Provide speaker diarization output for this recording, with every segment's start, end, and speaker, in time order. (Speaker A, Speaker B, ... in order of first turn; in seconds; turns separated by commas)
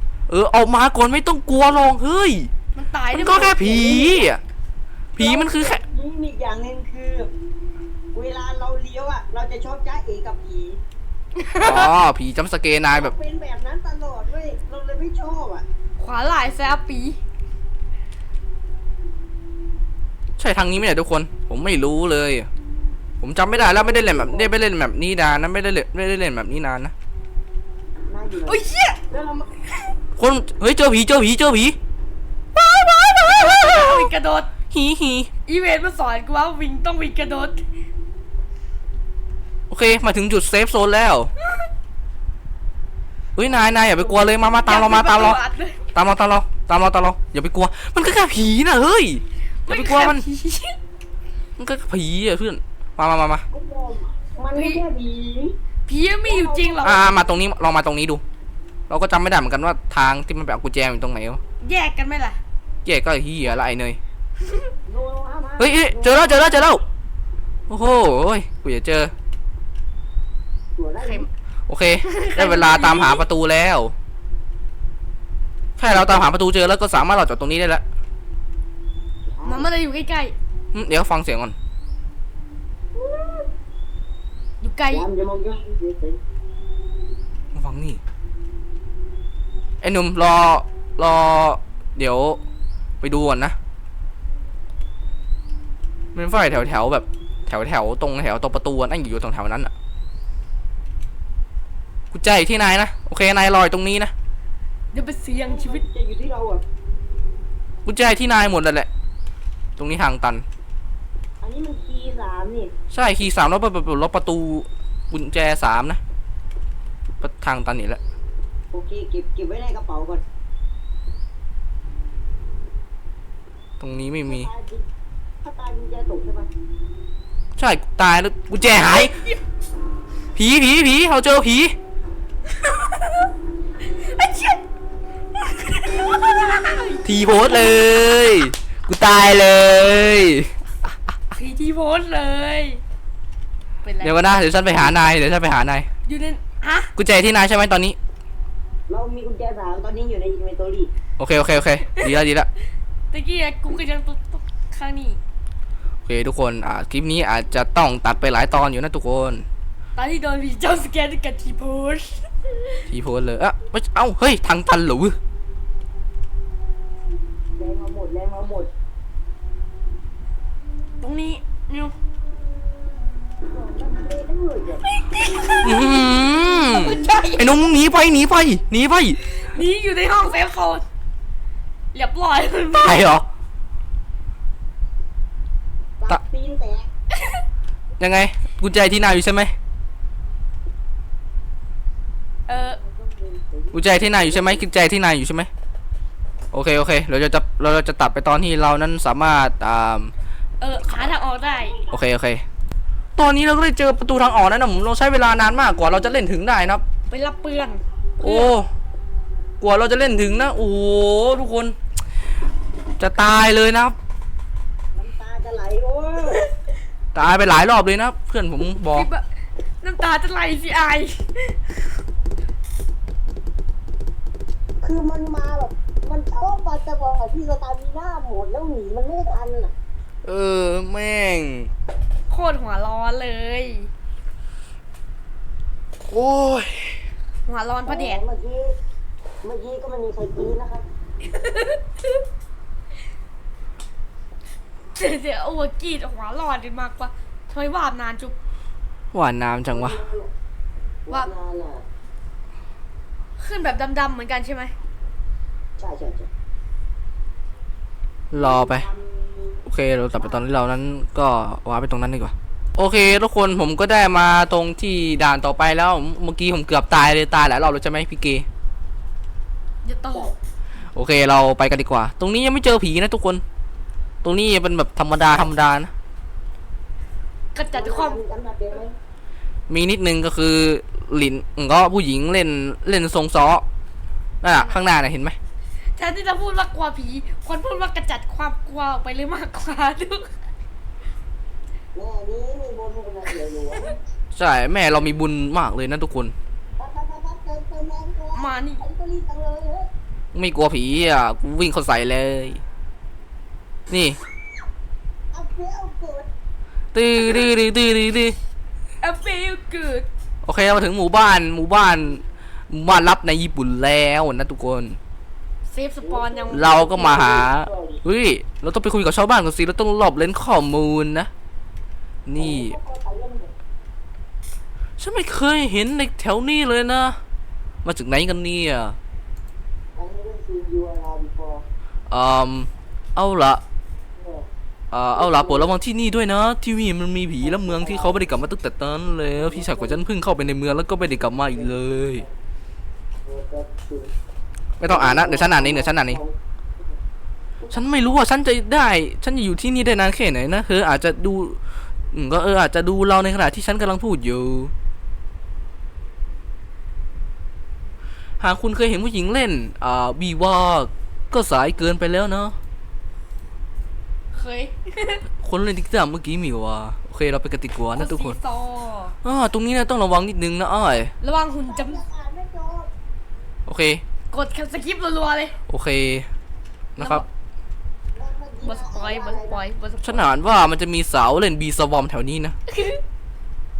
Speaker A: 0.3-2.5, Speaker B: 2.7-4.0, Speaker A: 3.1-4.4, Speaker C: 3.4-4.3, Speaker A: 5.2-5.8, Speaker C: 5.2-7.3, Speaker C: 8.1-10.8, Speaker B: 11.4-11.9, Speaker A: 11.6-13.1, Speaker C: 12.9-15.6, Speaker B: 16.0-17.2, Speaker A: 20.4-22.5, Speaker A: 23.2-26.9, Speaker C: 23.5-24.5, Speaker C: 28.1-29.5, Speaker B: 28.4-29.0, Speaker A: 30.2-31.8, Speaker A: 32.5-34.1, Speaker B: 33.2-34.5, Speaker A: 34.7-35.3, Speaker B: 35.5-37.6, Speaker A: 39.7-41.3, Speaker B: 41.4-41.7, Speaker A: 43.4-45.4, Speaker C: 43.5-44.6, Speaker B: 44.6-45.8, Speaker A: 45.9-50.3, Speaker B: 49.7-50.8, Speaker A: 51.6-53.4, Speaker C: 53.5-55.5, Speaker B: 54.5-54.8, Speaker B: 55.9-57.0, Speaker C: 56.2-57.0, Speaker A: 56.8-58.2, Speaker A: 58.9-61.4, Speaker B: 61.6-62.4, Speaker A: 62.8-64.0, Speaker B: 64.5-64.7, Speaker C: 64.9-66.7, Speaker A: 65.6-66.8, Speaker A: 67.7-69.1, Speaker C: 70.8-71.3, Speaker B: 71.0-71.3, Speaker A: 71.7-73.9, Speaker B: 72.0-73.2, Speaker A: 75.8-77.8, Speaker C: 75.9-76.3, Speaker C: 79.3-79.7, Speaker B: 79.4-80.3, Speaker A: 80.7-81.5, Speaker B: 83.0-83.4, Speaker B: 84.6-85.0, Speaker C: 84.9-86.2, Speaker A: 87.5-88.0, Speaker A: 89.8-92.4, Speaker A: 93.0-93.5, Speaker A: 96.1-99.7, Speaker A: 102.1-104.1, Speaker B: 104.9-105.8, Speaker C: 105.3-106.6, Speaker A: 107.8-108.9, Speaker A: 109.8-110.4, Speaker C: 111.4-112.7, Speaker A: 112.9-116.0, Speaker A: 117.2-118.0, Speaker C: 118.7-120.2, Speaker A: 123.8-124.5, Speaker C: 124.2-124.8, Speaker C: 125.4-126.5, Speaker A: 127.6-129.1, Speaker B: 128.8-129.4, Speaker A: 130.3-131.8, Speaker B: 132.6-133.3, Speaker B: 133.8-134.6, Speaker B: 135.3-137.8, Speaker A: 137.0-140.5, Speaker B: 141.3-142.8, Speaker B: 143.8-144.3, Speaker A: 144.0-145.9, Speaker B: 146.1-146.9, Speaker A: 146.9-148.0, Speaker C: 148.9-150.9, Speaker A: 151.2-152.5, Speaker B: 153.1-155.2, Speaker A: 156.1-159.4, Speaker B: 159.9-162.8, Speaker A: 162.9-165.2, Speaker C: 167.6-168.7, Speaker B: 171.0-171.9, Speaker C: 173.5-174.8, Speaker B: 174.8-176.0, Speaker A: 175.6-179.2, Speaker B: 176.6-177.5, Speaker B: 179.2-180.8, Speaker B: 181.9-183.0, Speaker A: 182.7-183.3, Speaker C: 186.0-186.9, Speaker A: 188.0-189.5, Speaker B: 192.5-192.8, Speaker C: 192.5-194.7, Speaker A: 193.7-195.5, Speaker A: 196.5-200.1, Speaker B: 200.6-201.8, Speaker C: 201.4-202.0, Speaker A: 201.9-202.4, Speaker A: 203.2-206.8, Speaker B: 207.1-208.5, Speaker A: 208.2-208.7, Speaker A: 209.6-211.8, Speaker A: 213.0-213.9, Speaker C: 214.9-216.4, Speaker A: 217.1-219.1, Speaker B: 218.9-219.2, Speaker B: 219.8-222.0, Speaker C: 224.8-229.7, Speaker A: 230.2-231.7, Speaker B: 232.3-233.9, Speaker A: 236.1-237.0, Speaker B: 237.4-238.2, Speaker C: 237.8-238.7, Speaker C: 239.4-240.8, Speaker B: 241.2-242.2, Speaker B: 244.9-248.3, Speaker A: 249.1-250.0, Speaker C: 249.7-250.3, Speaker C: 251.1-251.8, Speaker B: 253.4-254.7, Speaker C: 255.8-256.3, Speaker A: 258.3-258.9, Speaker C: 258.3-259.6, Speaker A: 259.6-268.5, Speaker B: 269.8-270.3, Speaker A: 270.9-273.4, Speaker A: 274.2-275.9, Speaker B: 277.5-278.2, Speaker C: 277.7-278.9, Speaker A: 279.7-283.6, Speaker A: 284.4-285.4, Speaker B: 284.5-284.8, Speaker B: 285.9-290.3, Speaker C: 291.9-294.0, Speaker A: 294.3-296.3, Speaker C: 296.8-299.9, Speaker B: 298.3-298.8, Speaker A: 300.3-302.6, Speaker A: 303.9-304.2, Speaker C: 305.3-306.3, Speaker A: 306.9-308.4, Speaker B: 309.0-310.1, Speaker A: 310.4-315.0, Speaker B: 315.7-317.2, Speaker C: 316.0-318.0, Speaker A: 316.5-321.3, Speaker A: 322.2-322.8, Speaker C: 322.4-323.5, Speaker A: 325.0-327.2, Speaker A: 327.8-329.0, Speaker C: 329.9-331.6, Speaker A: 332.1-333.6, Speaker C: 334.1-334.5, Speaker A: 334.9-342.2, Speaker C: 335.1-335.7, Speaker C: 337.4-338.4, Speaker C: 339.3-340.0, Speaker C: 341.5-342.2, Speaker C: 343.2-344.1, Speaker A: 344.8-346.2, Speaker C: 344.8-346.3, Speaker C: 347.6-348.1, Speaker A: 347.7-351.6, Speaker A: 352.1-354.7, Speaker A: 358.4-362.6, Speaker B: 364.3-365.2, Speaker A: 365.4-368.4, Speaker B: 367.9-369.1, Speaker A: 369.2-371.1, Speaker B: 371.2-372.0, Speaker C: 371.7-372.9, Speaker A: 373.7-374.0, Speaker B: 374.3-375.6, Speaker A: 375.7-376.3, Speaker A: 377.0-377.2, Speaker B: 377.0-377.2, Speaker C: 378.1-379.6, Speaker B: 378.6-380.3, Speaker A: 380.0-382.6, Speaker B: 382.7-383.0